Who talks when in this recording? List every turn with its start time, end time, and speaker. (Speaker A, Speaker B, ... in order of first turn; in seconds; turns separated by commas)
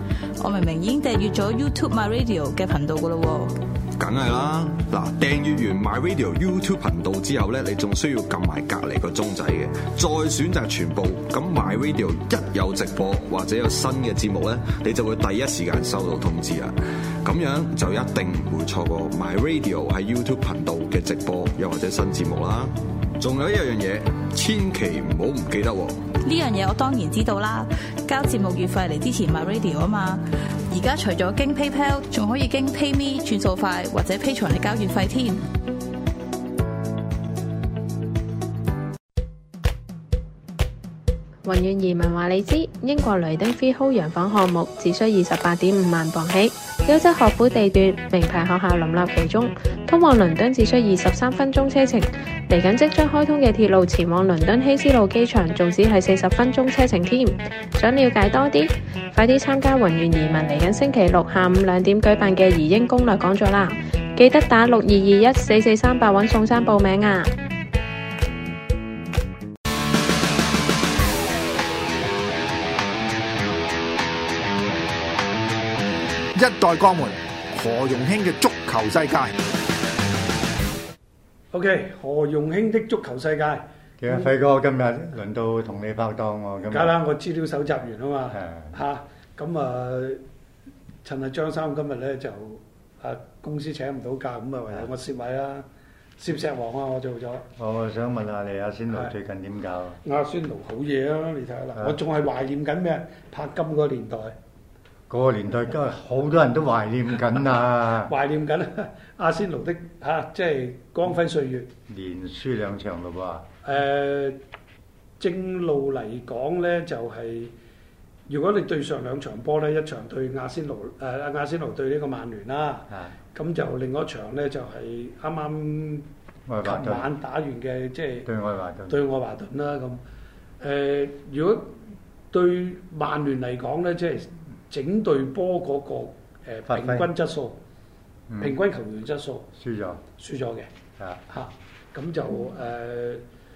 Speaker A: 0.4-3.6, Speaker B: 4.0-26.1, Speaker A: 26.2-35.5, Speaker C: 41.5-67.3, Speaker D: 76.3-79.4, Speaker E: 81.5-84.3, Speaker F: 84.0-86.9, Speaker E: 86.7-90.2, Speaker F: 88.3-88.7, Speaker E: 91.0-95.7, Speaker E: 96.2-97.5, Speaker F: 97.6-100.0, Speaker E: 100.0-104.3, Speaker F: 105.1-108.1, Speaker E: 108.0-111.7, Speaker F: 111.9-113.5, Speaker E: 113.6-114.4, Speaker E: 115.2-117.5, Speaker E: 118.3-126.1, Speaker F: 122.9-123.2, Speaker F: 126.5-127.1, Speaker E: 126.6-128.3, Speaker F: 128.2-129.0, Speaker E: 128.9-130.0, Speaker E: 130.6-131.8, Speaker E: 132.3-137.6, Speaker F: 136.7-137.1, Speaker F: 138.3-138.6, Speaker E: 138.4-139.5, Speaker F: 139.6-140.0, Speaker E: 140.1-140.7, Speaker E: 141.3-143.2